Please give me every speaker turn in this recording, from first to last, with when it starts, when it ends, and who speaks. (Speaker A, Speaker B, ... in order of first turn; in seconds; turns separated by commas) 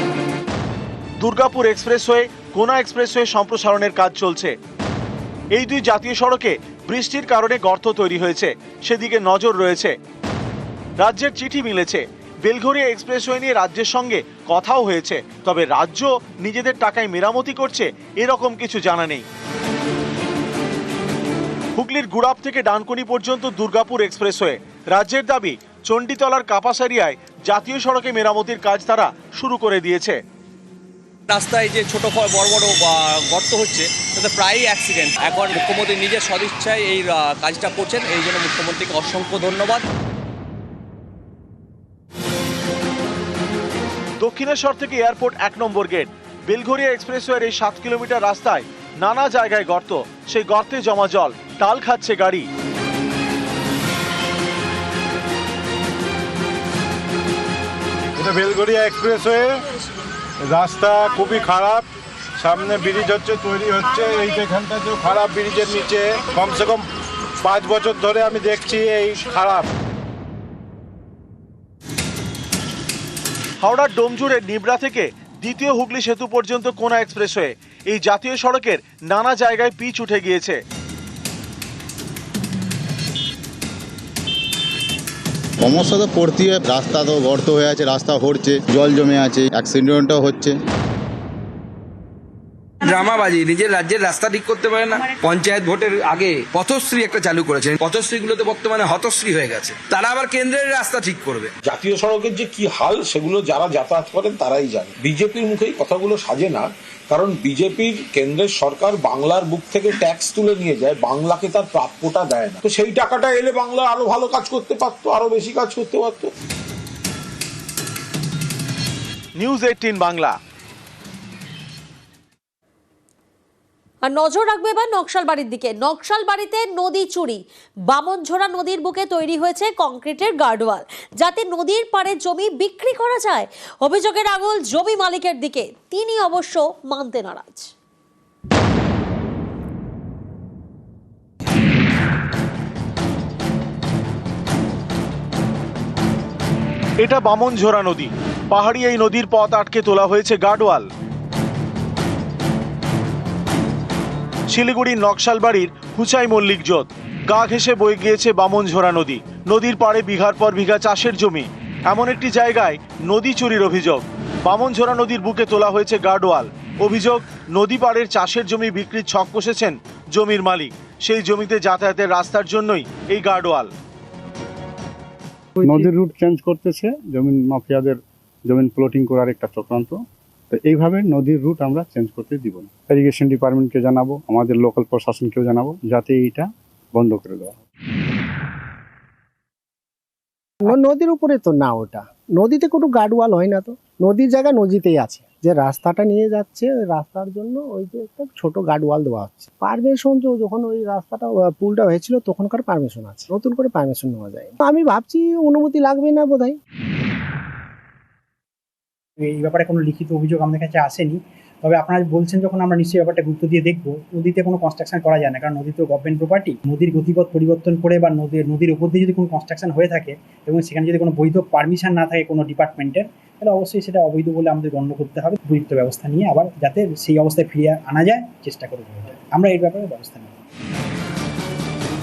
Speaker A: 1.2-4.5, Speaker A: 5.5-9.9, Speaker A: 11.0-19.2, Speaker A: 21.8-30.2, Speaker B: 31.3-39.8, Speaker A: 44.2-52.5, Speaker C: 58.2-59.6, Speaker C: 60.4-61.9, Speaker C: 62.4-66.9, Speaker C: 67.4-69.7, Speaker A: 73.6-80.6, Speaker D: 85.7-90.5, Speaker E: 92.8-101.5, Speaker F: 101.7-116.3, Speaker A: 119.4-120.4, Speaker G: 124.1-137.7, Speaker A: 147.0-150.9, Speaker A: 154.5-173.7, Speaker H: 175.6-180.0, Speaker H: 180.5-187.6, Speaker I: 190.7-206.6, Speaker J: 209.2-230.3